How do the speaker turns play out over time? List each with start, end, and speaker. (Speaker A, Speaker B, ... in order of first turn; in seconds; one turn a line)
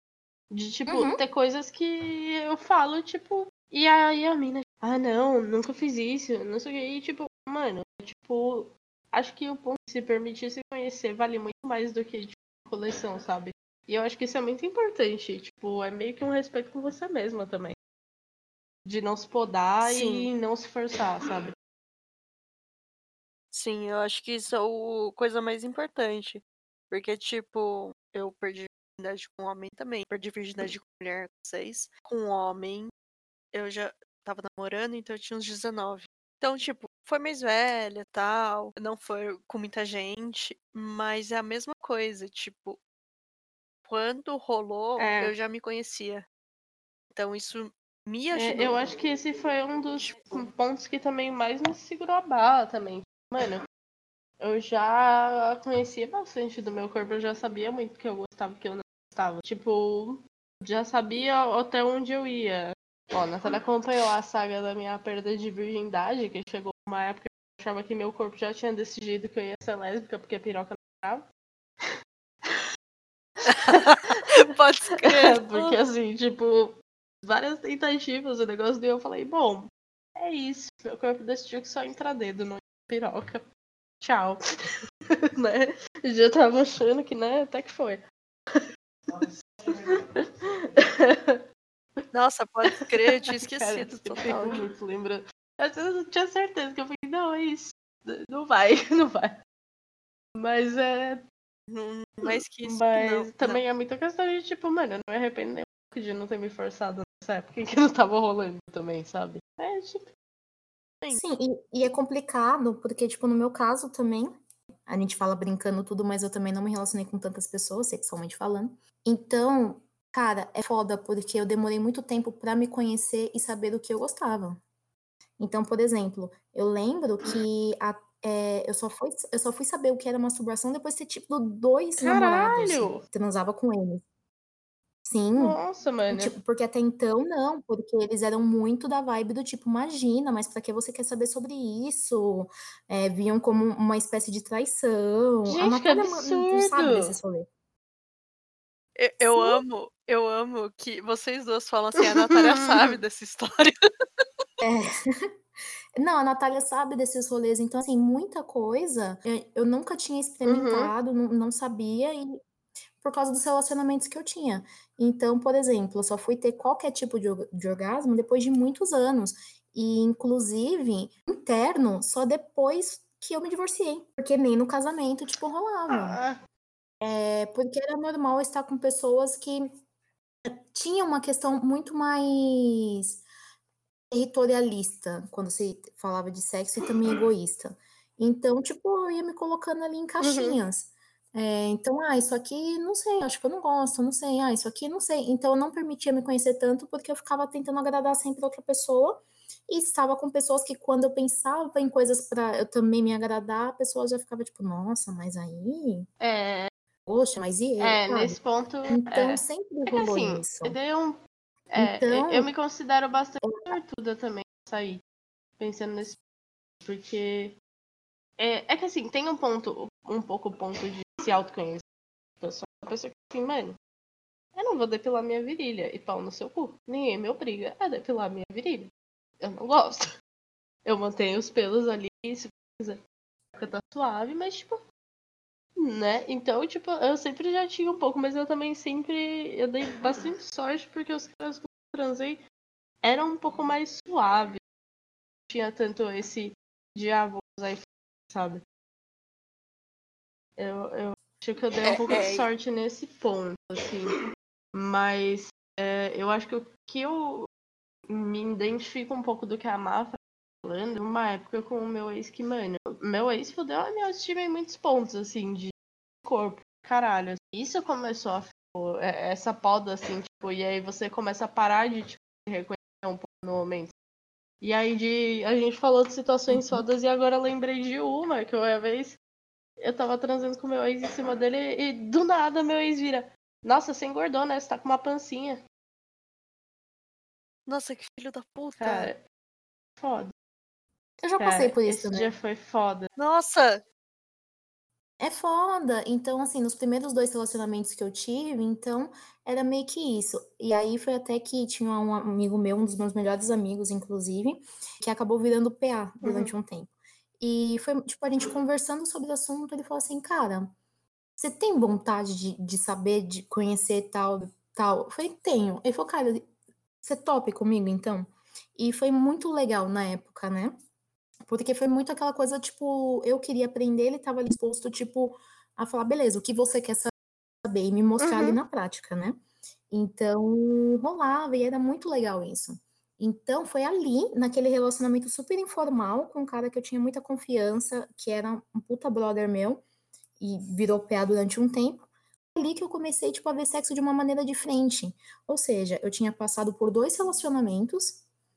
Speaker A: 0.5-17.8
Speaker B: 0.9-1.2
Speaker A: 18.9-21.5
Speaker C: 19.8-20.3
Speaker C: 23.5-32.9
Speaker C: 33.5-42.8
Speaker C: 43.9-46.2
Speaker A: 45.0-45.3
Speaker C: 47.1-48.8
Speaker A: 48.3-53.6
Speaker C: 50.0-50.5
Speaker A: 54.4-71.2
Speaker C: 73.5-75.8
Speaker A: 73.7-74.2
Speaker A: 75.0-83.4
Speaker A: 84.0-84.4
Speaker A: 85.2-91.4
Speaker C: 92.1-94.7
Speaker A: 92.7-99.3
Speaker A: 100.4-101.2
Speaker C: 101.7-103.6
Speaker A: 102.2-110.1
Speaker B: 111.1-114.3
Speaker B: 114.9-124.6
Speaker B: 125.4-134.0
Speaker A: 132.0-133.0
Speaker B: 135.1-135.6
Speaker A: 135.3-136.3
Speaker B: 136.1-147.5
Speaker A: 145.5-147.1
Speaker C: 149.0-153.8
Speaker B: 149.2-149.6
Speaker A: 152.0-153.0
Speaker B: 154.6-154.9
Speaker B: 156.0-162.4
Speaker A: 160.4-160.9
Speaker B: 163.0-176.2
Speaker A: 175.9-176.4
Speaker B: 177.0-179.7
Speaker B: 180.4-183.2
Speaker B: 184.1-206.1
Speaker A: 190.2-190.6
Speaker A: 206.2-206.7
Speaker B: 207.1-210.8
Speaker A: 207.8-211.2
Speaker A: 211.7-215.0
Speaker B: 211.8-212.5
Speaker B: 213.4-213.8
Speaker A: 215.6-216.2
Speaker A: 216.8-217.6
Speaker A: 218.4-221.8
Speaker A: 222.4-223.8
Speaker A: 224.6-228.9
Speaker A: 229.4-230.1
Speaker A: 230.8-233.0
Speaker A: 233.6-234.8
Speaker A: 235.8-242.4
Speaker A: 243.0-244.6
Speaker A: 245.5-248.6
Speaker A: 250.6-254.2
Speaker C: 251.9-252.5
Speaker A: 254.7-257.5
Speaker A: 258.1-265.7
Speaker A: 266.2-273.9
Speaker A: 274.6-279.2
Speaker B: 276.5-276.8
Speaker A: 279.8-285.6
Speaker C: 287.7-289.1
Speaker A: 288.8-289.2
Speaker A: 290.0-290.3
Speaker B: 291.2-292.3
Speaker A: 291.4-293.1
Speaker C: 293.2-293.8
Speaker B: 295.2-310.7
Speaker A: 306.2-306.5
Speaker B: 311.4-316.5
Speaker B: 317.0-320.8
Speaker B: 321.4-327.1
Speaker B: 327.6-329.4
Speaker A: 328.2-328.6
Speaker B: 329.9-339.8
Speaker B: 340.4-342.0
Speaker B: 342.6-348.2